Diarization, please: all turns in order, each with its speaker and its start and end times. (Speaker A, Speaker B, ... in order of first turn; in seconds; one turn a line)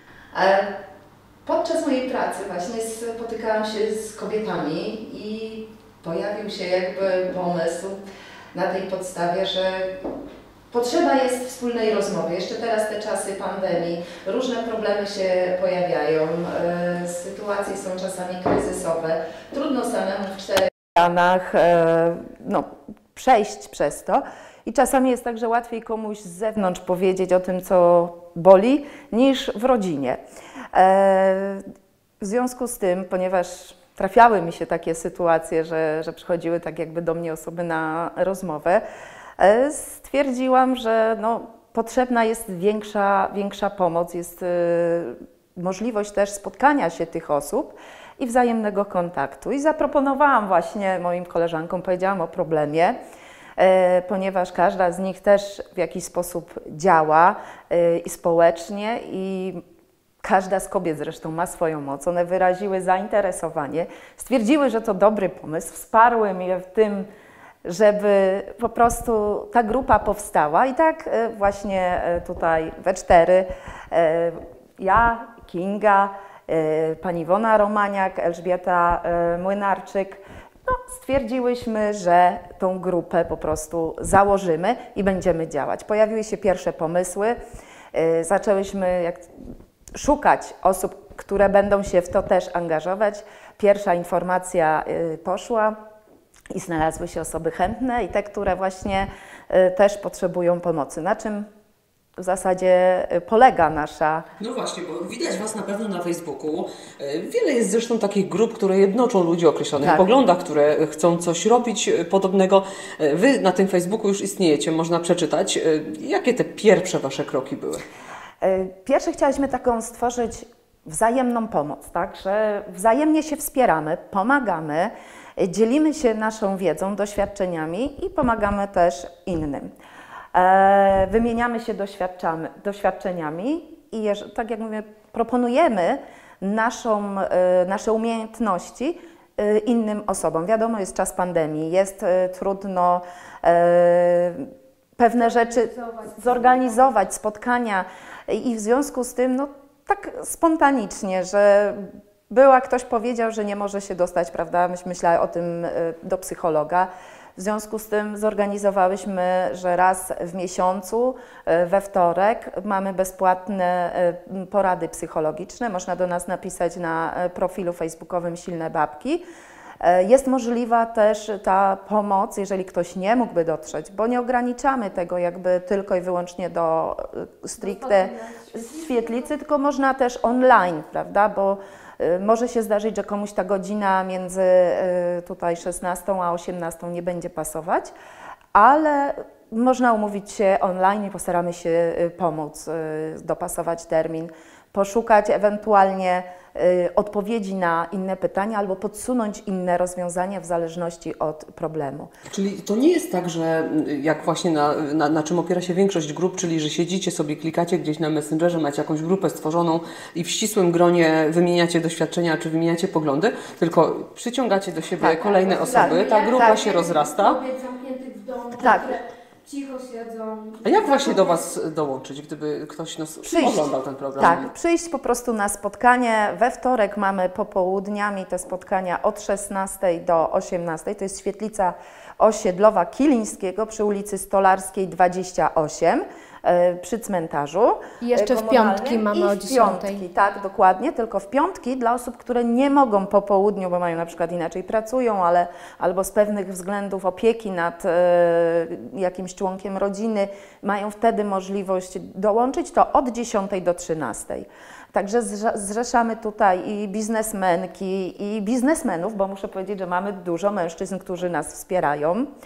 Speaker A: 0.3-0.7
Speaker A: 1.4-8.0
Speaker A: 8.5-9.9
Speaker A: 10.7-30.2
Speaker A: 30.7-31.6
Speaker A: 32.2-38.8
Speaker A: 39.4-53.0
Speaker A: 53.6-59.6
Speaker A: 60.2-67.1
Speaker A: 67.7-87.4
Speaker A: 87.9-89.3
Speaker A: 89.9-95.8
Speaker A: 96.5-101.5
Speaker A: 102.2-104.2
Speaker B: 104.4-117.8
Speaker A: 109.8-110.1
Speaker A: 118.4-129.7
Speaker A: 130.3-169.2
Speaker C: 145.2-147.0
Speaker A: 169.8-187.9
Speaker C: 177.6-179.3
Speaker A: 188.5-202.1
Speaker B: 202.3-217.4
Speaker A: 215.0-216.5
Speaker C: 215.3-221.4
Speaker A: 218.6-218.9
Speaker B: 220.6-224.5
Speaker A: 223.2-262.3
Speaker C: 238.0-240.0